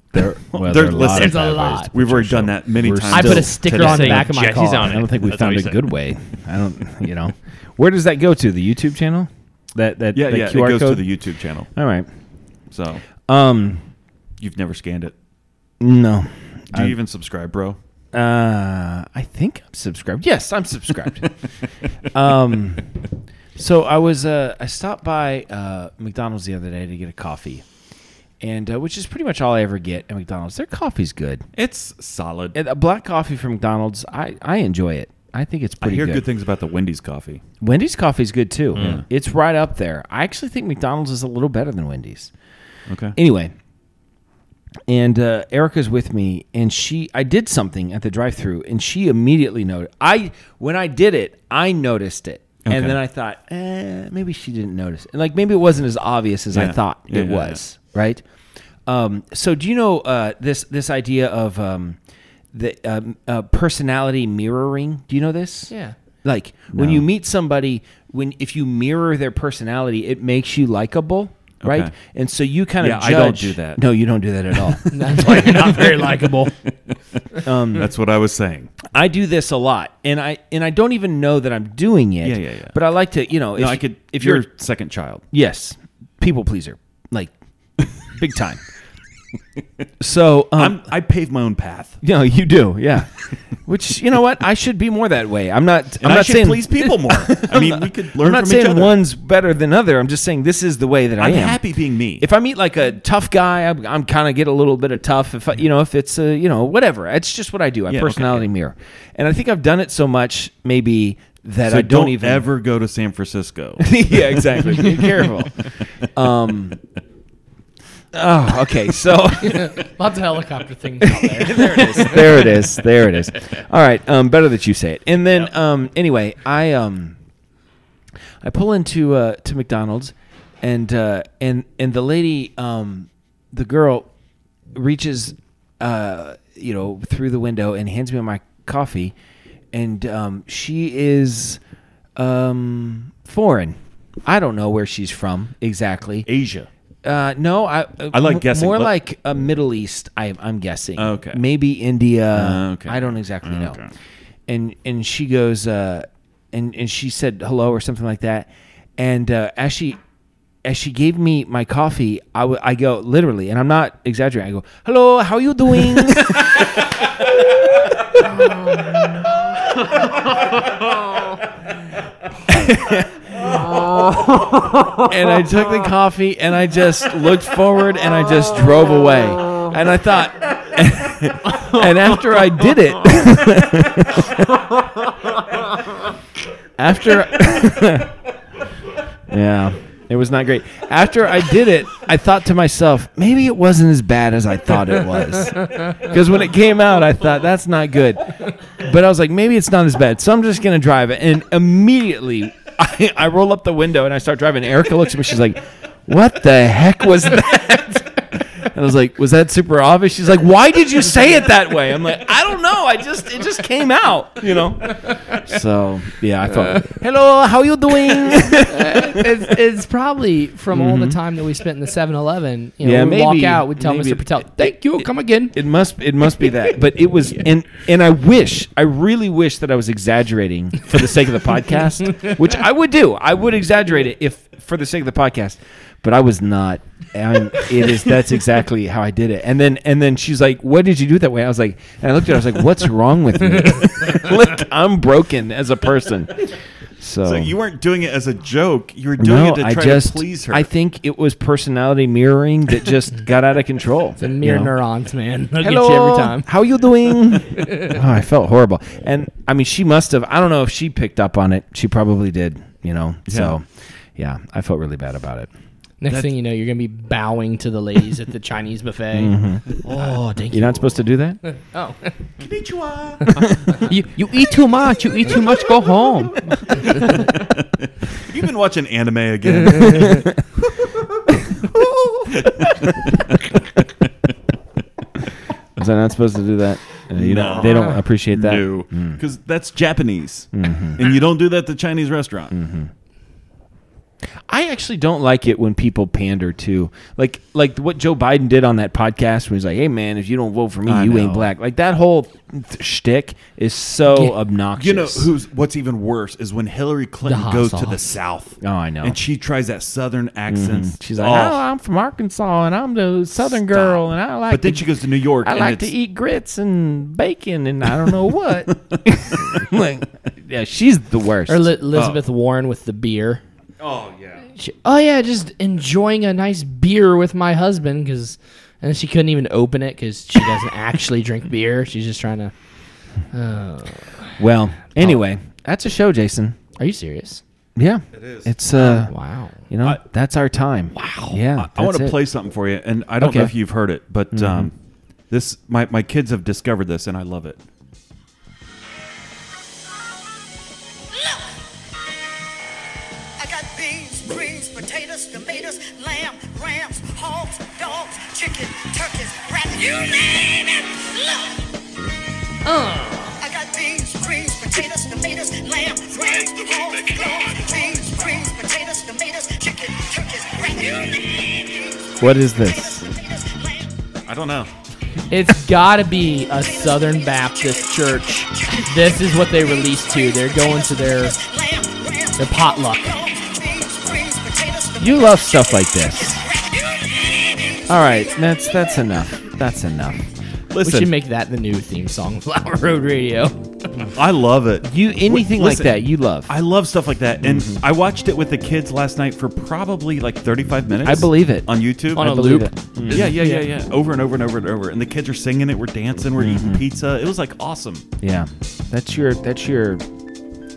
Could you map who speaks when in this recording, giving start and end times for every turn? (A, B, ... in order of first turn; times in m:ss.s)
0:00.1-0:11.1 A
0:00.2-0:04.2 B
0:00.9-0:01.9 C
0:03.1-0:05.1 C
0:03.7-0:05.9 D
0:10.1-0:11.7 B
0:11.7-0:12.1 A
0:12.7-0:13.0 B
0:13.2-0:13.8 A
0:14.4-0:15.2 B
0:15.8-0:17.0 A
0:16.7-0:17.8 B
0:18.1-0:21.4 A
0:22.1-0:22.9 A
0:23.6-0:27.6 A
0:28.4-0:31.5 A
0:31.6-0:32.6 B
0:32.5-0:36.2 A
0:35.8-0:37.4 B
0:37.6-0:42.3 A
0:38.8-0:39.0 B
0:42.9-0:43.2 B
0:43.2-0:43.5 A
0:44.9-0:58.2 A
0:52.6-0:53.0 B
0:56.5-0:57.6 B
0:58.9-1:02.0 A
1:02.5-1:14.9 A
1:05.7-1:06.0 C
1:06.7-1:07.1 B
1:11.6-1:11.9 B
1:12.8-1:13.9 B
1:14.5-1:17.0 B
1:14.9-1:16.6 C
1:17.4-1:17.9 A
1:17.7-1:18.8 B
1:18.9-1:24.5 A
1:22.2-1:22.8 B
1:23.5-1:25.2 B
1:25.3-1:27.3 A
1:28.1-1:28.6 A
1:30.0-1:30.8 A
1:30.6-1:32.0 B
1:32.0-1:41.6 A
1:36.0-1:39.0 B
1:41.2-1:42.3 B
1:42.2-1:52.5 A
1:47.9-1:48.5 B
1:51.6-1:55.6 B
1:53.8-1:56.8 A
1:58.1-1:59.8 A
1:59.4-2:02.5 C
2:01.1-2:07.2 A
2:08.4-2:14.1 A
2:14.7-2:19.1 A
2:19.7-2:21.6 A
2:22.2-2:26.3 A
2:26.2-2:26.7 B
2:27.0-2:33.8 A
2:28.1-2:28.9 B
2:31.0-2:31.4 B
2:32.3-2:33.9 B
2:34.5-2:40.0 A
2:40.6-2:46.9 A
2:48.1-2:49.3 A
2:52.5-2:53.6 A
2:55.0-3:04.7 A
3:06.8-3:08.1 A
3:09.3-3:39.2 A
3:38.2-3:45.5 C
3:40.7-3:41.2 A
3:42.8-4:07.6 A
4:07.2-4:10.7 B
4:09.2-4:14.7 A
4:14.2-4:16.5 C
4:15.6-4:25.5 A
4:17.0-4:17.9 C
4:23.3-4:23.6 B
4:26.0-4:31.0 C
4:29.1-4:29.7 A
4:29.8-4:30.2 B
4:30.5-4:31.4 A
4:31.5-4:32.1 C
4:32.4-4:33.7 B
4:33.9-4:36.3 D
4:36.1-4:40.3 B
4:39.7-4:40.2 C
4:42.3-4:44.1 B
4:45.8-4:49.2 A
4:47.1-4:52.6 B
4:50.5-4:51.1 A
4:52.5-4:52.9 A
4:54.5-5:05.3 A
5:00.9-5:01.5 B
5:04.8-5:11.6 B
5:07.2-5:08.2 C
5:08.6-5:09.2 A
5:10.5-5:21.7 A
5:13.4-5:15.9 B
5:18.7-5:19.6 B
5:21.5-5:23.4 C
5:21.9-5:22.2 B
5:23.8-5:24.5 B
5:24.5-5:32.5 C
5:33.3-5:34.4 C
5:34.4-5:36.6 A
5:36.8-5:37.4 C
5:37.8-5:39.1 A
5:38.1-5:38.6 B
5:38.7-5:39.6 C
5:39.7-5:42.2 A
5:41.0-5:41.4 C
5:41.6-5:44.7 B
5:43.2-5:43.5 A
5:44.3-5:44.7 A
5:45.3-5:47.6 B
5:51.1-5:51.6 E
5:53.4-6:01.7 E
6:02.6-6:03.4 C
6:03.4-6:14.0 E
6:12.2-6:13.1 A
6:14.3-6:14.7 B
6:15.3-6:21.4 C
6:16.5-6:19.7 E
6:20.2-6:28.2 E
6:22.4-6:23.2 C
6:25.0-6:26.4 A
6:27.9-6:30.2 A
6:30.7-6:31.1 B
6:30.8-6:34.1 C
6:34.1-6:42.4 B
6:34.8-6:36.5 A
6:37.4-6:37.8 A
6:41.0-6:43.3 A
6:42.2-6:43.7 C
6:43.1-6:48.1 B
6:46.4-6:46.8 A
6:48.2-6:50.0 A